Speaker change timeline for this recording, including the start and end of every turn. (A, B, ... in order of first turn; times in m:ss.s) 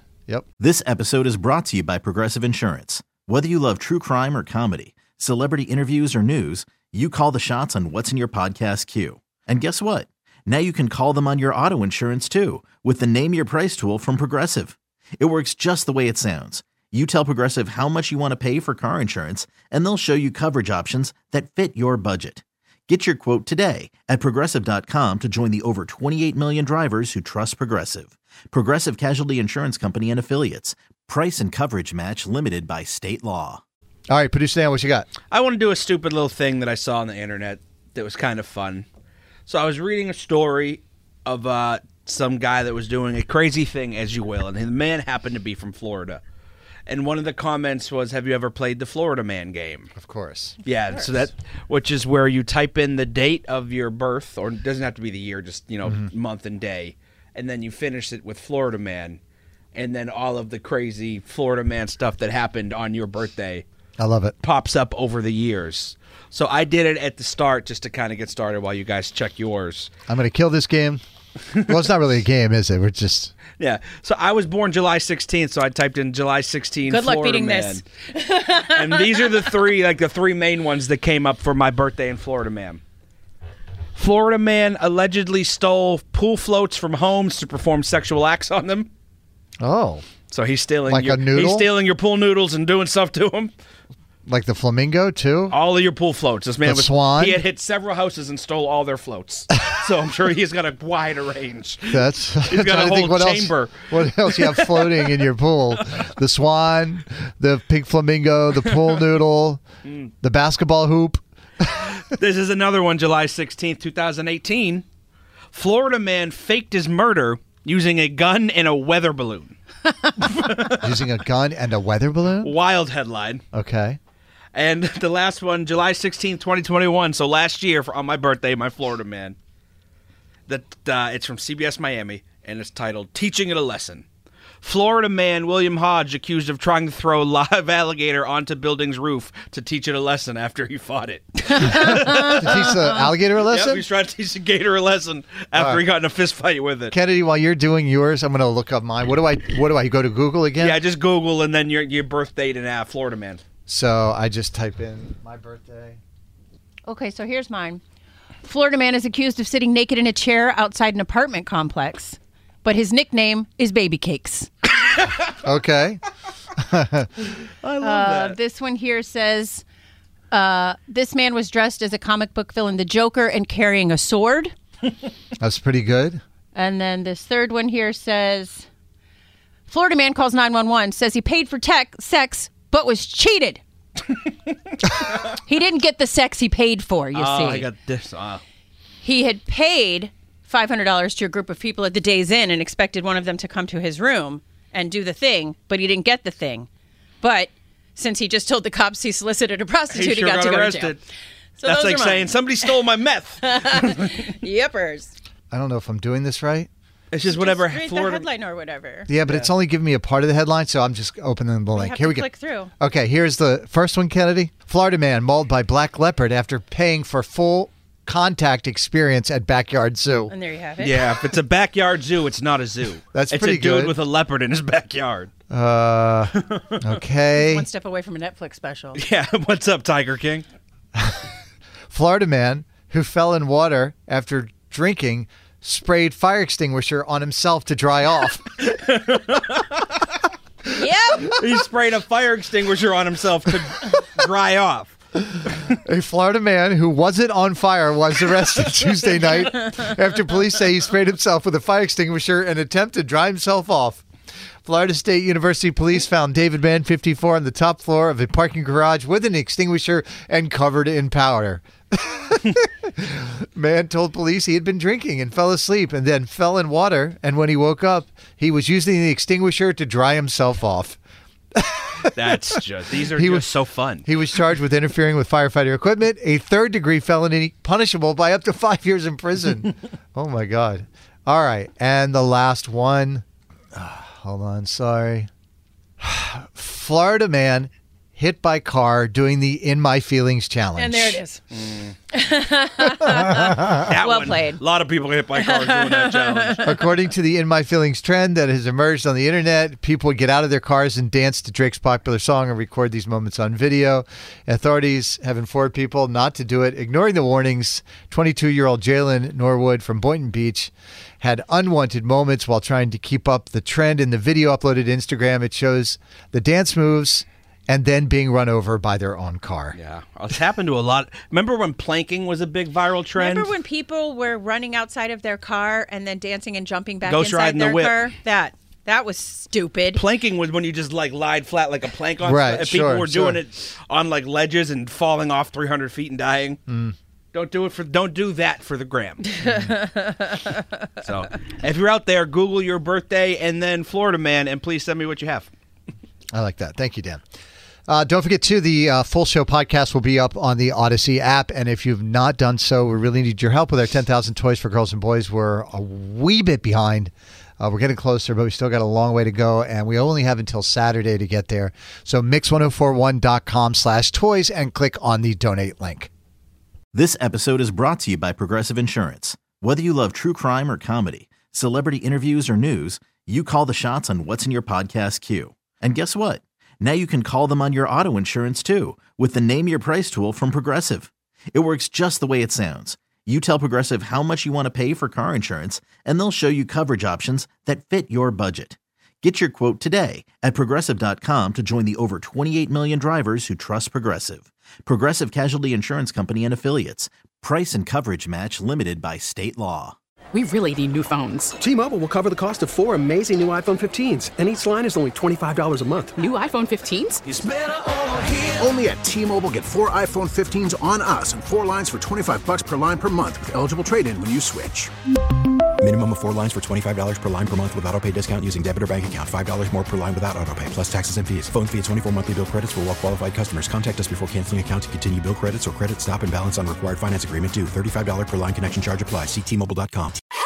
0:00.6-0:33.6 A
0:34.1-0:35.1 B
0:35.3-0:38.8 C
0:39.5-0:46.2 C
0:46.9-0:49.9 C
0:49.9-0:50.6 B
0:50.6-0:59.2 C
0:59.7-1:03.6 C
1:04.0-1:04.3 B
1:04.4-1:09.9 C
1:10.1-1:11.0 B
1:11.6-1:13.3 B
1:13.6-1:17.8 C
1:16.9-1:19.5 D
1:18.6-1:22.8 C
1:24.0-1:28.9 C
1:29.6-1:30.0 B
1:30.3-1:33.5 C
1:30.9-1:31.7 B
1:34.2-1:35.6 B
1:35.5-1:45.1 C
1:36.6-1:37.4 B
1:41.9-1:49.6 B
1:49.8-1:50.1 C
1:50.2-1:51.9 B
1:52.1-1:54.8 C
1:55.5-1:59.6 C
2:00.2-2:01.0 C
2:00.7-2:02.5 B
2:02.4-2:03.4 C
2:03.5-2:04.0 B
2:04.5-2:09.4 C
2:10.5-2:14.0 C
2:14.6-2:22.7 C
2:21.5-2:22.8 D
2:21.7-2:23.8 B
2:23.4-2:26.9 C
2:25.5-2:25.8 B
2:26.9-2:30.8 B
2:30.6-2:33.4 C
2:33.7-2:36.0 B
2:36.8-2:37.8 D
2:38.4-2:44.5 D
2:45.4-2:46.0 B
2:46.6-2:47.1 B
2:47.6-2:48.4 C
2:47.8-2:49.6 D
2:50.3-2:54.5 D
2:55.4-2:56.2 B
2:56.5-2:58.7 D
2:59.7-3:03.6 D
3:04.9-3:07.7 D
3:07.1-3:08.4 C
3:09.0-3:16.7 D
3:17.2-3:21.0 D
3:19.9-3:21.0 C
3:21.6-3:22.8 D
3:21.6-3:24.3 C
3:23.4-3:25.1 D
3:25.5-3:26.7 B
3:27.1-3:28.2 C
3:27.3-3:29.1 D
3:29.1-3:32.3 B
3:29.2-3:29.5 C
3:31.7-3:32.7 D
3:32.8-3:40.3 B
3:40.3-3:41.1 D
3:40.8-3:45.3 C
3:43.1-3:44.0 B
3:45.5-3:47.6 B
3:46.4-3:46.8 C
3:47.3-3:49.0 D
3:48.9-3:50.4 C
3:51.0-3:51.2 B
3:51.9-3:58.5 B
3:58.6-3:59.8 C
4:00.7-4:01.4 D
4:01.2-4:04.9 C
4:05.4-4:14.0 B
4:14.6-4:31.0 B
4:31.5-4:32.4 B
4:32.1-4:34.1 C
4:33.1-4:33.5 B
4:34.0-4:45.3 B
4:46.0-4:51.2 B
4:50.8-4:51.4 D
4:51.5-4:51.9 C
4:52.1-4:54.6 D
4:53.3-4:53.6 B
4:53.6-4:56.7 C
4:55.3-4:56.9 D
4:56.6-5:19.8 B
5:19.8-5:23.5 C
5:23.2-5:30.0 D
5:27.0-5:28.0 C
5:29.9-5:36.6 C
5:32.2-5:33.4 B
5:36.7-5:36.9 B
5:37.3-5:39.3 C
5:39.4-5:40.6 D
5:39.4-5:39.7 B
5:41.0-5:45.5 C
5:46.3-5:47.2 B
5:47.9-6:06.1 B
6:06.9-6:40.0 A
6:40.3-6:41.5 E
6:41.6-6:46.2 F
6:46.2-6:47.2 E
6:47.3-6:54.9 G
6:55.8-7:10.2 H